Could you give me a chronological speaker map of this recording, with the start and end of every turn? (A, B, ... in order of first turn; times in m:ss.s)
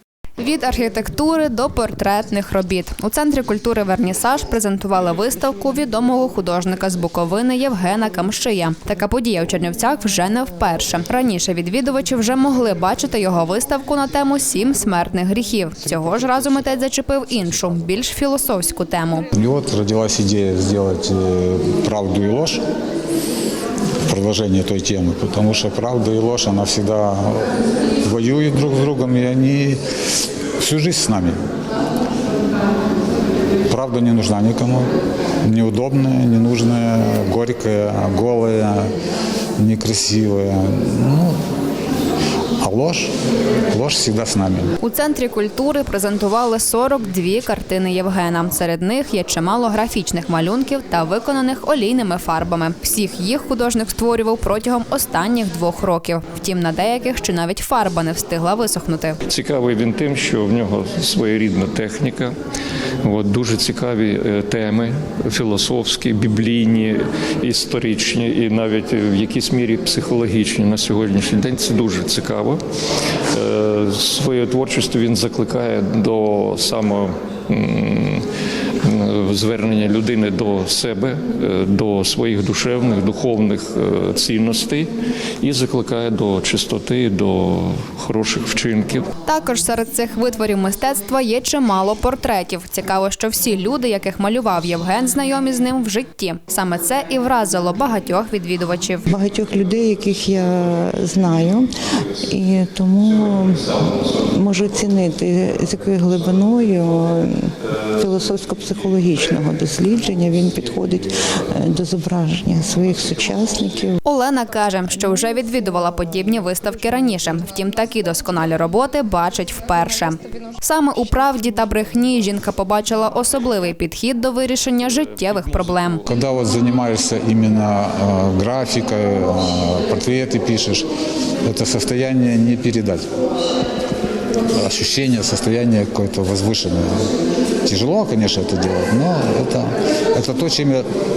0:00.4-0:19.3 A
0:19.3-0:22.6 B
0:24.1-0:27.5 B
0:28.0-0:29.8 B
0:30.6-0:31.4 B
0:33.7-0:34.9 B
0:35.4-0:38.9 B
0:39.6-0:41.4 B
0:42.6-0:43.1 B
0:43.7-0:44.7 B
0:44.8-0:59.2 A
0:59.3-1:02.4 C
1:03.0-1:12.6 C
1:13.3-1:18.3 C
1:18.8-1:29.1 C
1:29.2-1:39.1 A
1:39.1-1:41.7 D
1:42.2-1:54.0 D
1:54.0-2:06.0 A
2:05.2-2:06.0 C
2:06.1-2:10.9 B
2:11.4-2:13.1 B
2:14.5-2:17.0 B
2:17.6-2:20.8 B